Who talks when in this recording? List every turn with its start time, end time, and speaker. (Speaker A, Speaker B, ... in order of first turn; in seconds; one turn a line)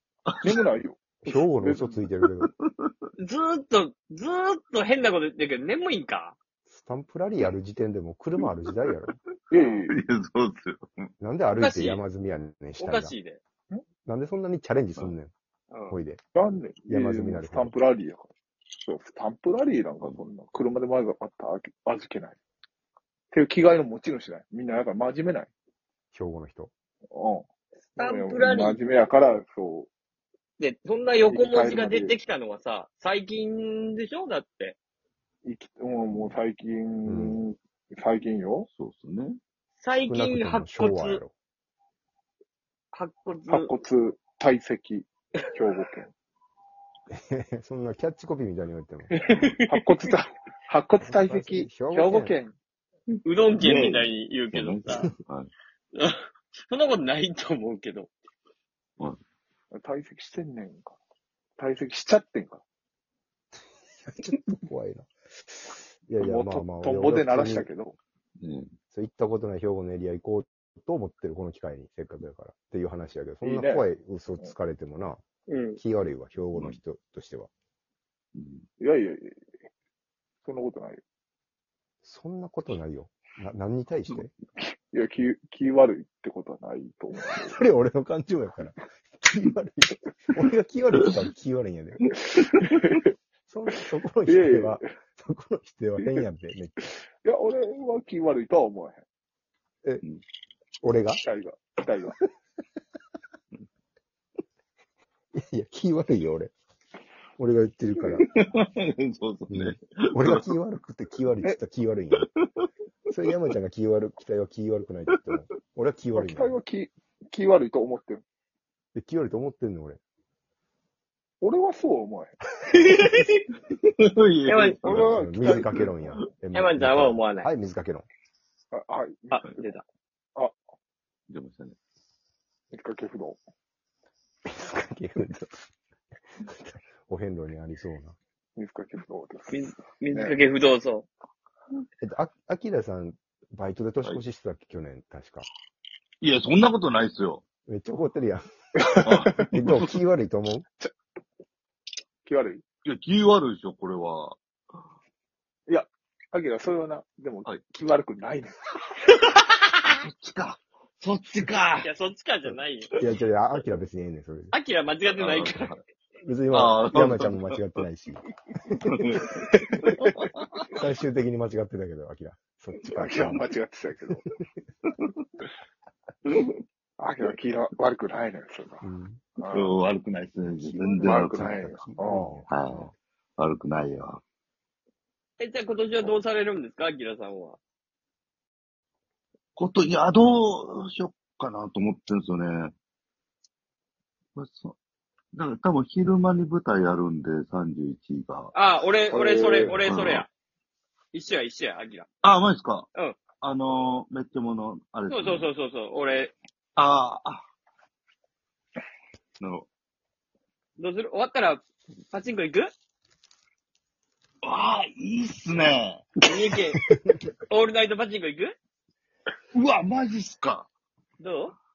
Speaker A: 0.3-0.6
Speaker B: 0.4-2.0
Speaker C: 1.2-2.5
Speaker D: 3.2-6.3
Speaker C: 6.7-9.1
Speaker B: 9.5-9.9
Speaker A: 9.9-11.1
Speaker C: 11.2-13.1
Speaker D: 11.6-12.0
Speaker D: 12.8-13.4
Speaker C: 14.1-15.3
Speaker D: 15.7-16.0
Speaker C: 15.9-16.2
Speaker B: 16.3-18.3
Speaker C: 16.9-17.7
Speaker B: 18.8-22.4
Speaker B: 23.3-25.5
Speaker C: 26.1-26.7
Speaker B: 27.1-27.4
Speaker B: 27.9-29.9
Speaker D: 28.0-28.8
Speaker D: 30.6-34.8
Speaker B: 31.3-32.1
Speaker B: 35.4-38.7
Speaker C: 37.0-37.4
Speaker A: 38.8-39.4
Speaker D: 39.8-41.2
Speaker C: 40.0-41.3
Speaker D: 42.9-43.7
Speaker B: 43.5-46.1
Speaker C: 47.1-49.1
Speaker D: 49.3-49.5
Speaker B: 49.7-52.5
Speaker C: 51.0-52.4
Speaker D: 53.2-55.1
Speaker A: 53.5-55.5
Speaker D: 55.9-58.1
Speaker B: 59.7-60.9
Speaker B: 61.6-62.6
Speaker C: 64.0-67.7
Speaker B: 66.2-68.0
Speaker A: 68.4-68.7
Speaker C: 68.9-75.2
Speaker B: 73.4-73.8
Speaker D: 75.5-75.8
Speaker C: 75.8-77.5
Speaker A: 76.5-76.8
Speaker A: 78.3-78.7
Speaker B: 78.8-79.4
Speaker B: 80.4-81.0
Speaker C: 82.0-84.3
Speaker B: 84.6-87.6
Speaker C: 87.3-92.2
Speaker A: 92.1-93.0
Speaker B: 92.3-93.1
Speaker C: 93.5-96.9
Speaker B: 94.3-94.8
Speaker B: 97.2-99.0
Speaker C: 100.8-101.2
Speaker B: 101.2-102.2
Speaker C: 105.3-106.5
Speaker C: 107.4-108.2
Speaker B: 108.0-108.2
Speaker A: 108.2-110.4
Speaker C: 109.5-112.3
Speaker A: 112.1-112.7
Speaker C: 113.1-116.6
Speaker B: 116.1-118.2
Speaker C: 118.9-120.0
Speaker B: 121.4-122.3
Speaker D: 122.8-123.3
Speaker A: 124.0-126.2
Speaker D: 124.5-124.8
Speaker B: 124.8-125.7
Speaker C: 124.8-128.1
Speaker D: 126.5-127.5
Speaker B: 128.7-129.5
Speaker D: 129.3-129.8
Speaker A: 131.3-131.8
Speaker B: 132.7-133.4
Speaker C: 134.4-135.7
Speaker C: 136.4-138.2
Speaker B: 138.6-139.6
Speaker D: 139.5-141.1
Speaker B: 140.1-140.4
Speaker C: 142.0-145.5
Speaker A: 146.2-147.4
Speaker C: 147.7-150.7
Speaker B: 148.8-149.4
Speaker A: 149.0-149.9
Speaker B: 152.2-152.6
Speaker A: 152.8-154.4
Speaker B: 155.7-158.7
Speaker A: 159.9-161.9
Speaker D: 161.8-163.0
Speaker C: 163.0-164.5
Speaker D: 164.5-165.8
Speaker A: 165.1-165.8
Speaker C: 166.2-169.8
Speaker A: 166.5-167.6
Speaker A: 168.8-170.7
Speaker C: 170.7-173.4
Speaker B: 172.9-174.2
Speaker A: 174.9-175.1
Speaker A: 176.3-176.5
Speaker B: 177.0-178.8
Speaker C: 178.8-179.2
Speaker B: 179.4-179.8
Speaker A: 179.5-181.6
Speaker C: 180.4-182.9
Speaker B: 181.0-182.4
Speaker A: 182.5-184.2
Speaker D: 185.4-187.6
Speaker A: 189.6-192.7
Speaker A: 194.3-194.8
Speaker A: 195.3-198.5
Speaker D: 198.5-200.3
Speaker B: 199.1-199.8
Speaker A: 199.8-200.2
Speaker D: 201.1-202.1
Speaker A: 202.2-202.9
Speaker A: 203.4-205.5
Speaker D: 205.1-206.3
Speaker A: 206.8-207.4
Speaker A: 209.4-209.7
Speaker D: 210.8-212.7
Speaker A: 214.4-216.1
Speaker D: 216.2-216.8
Speaker C: 216.8-217.3
Speaker D: 217.5-218.6
Speaker A: 219.5-220.7
Speaker D: 221.2-221.5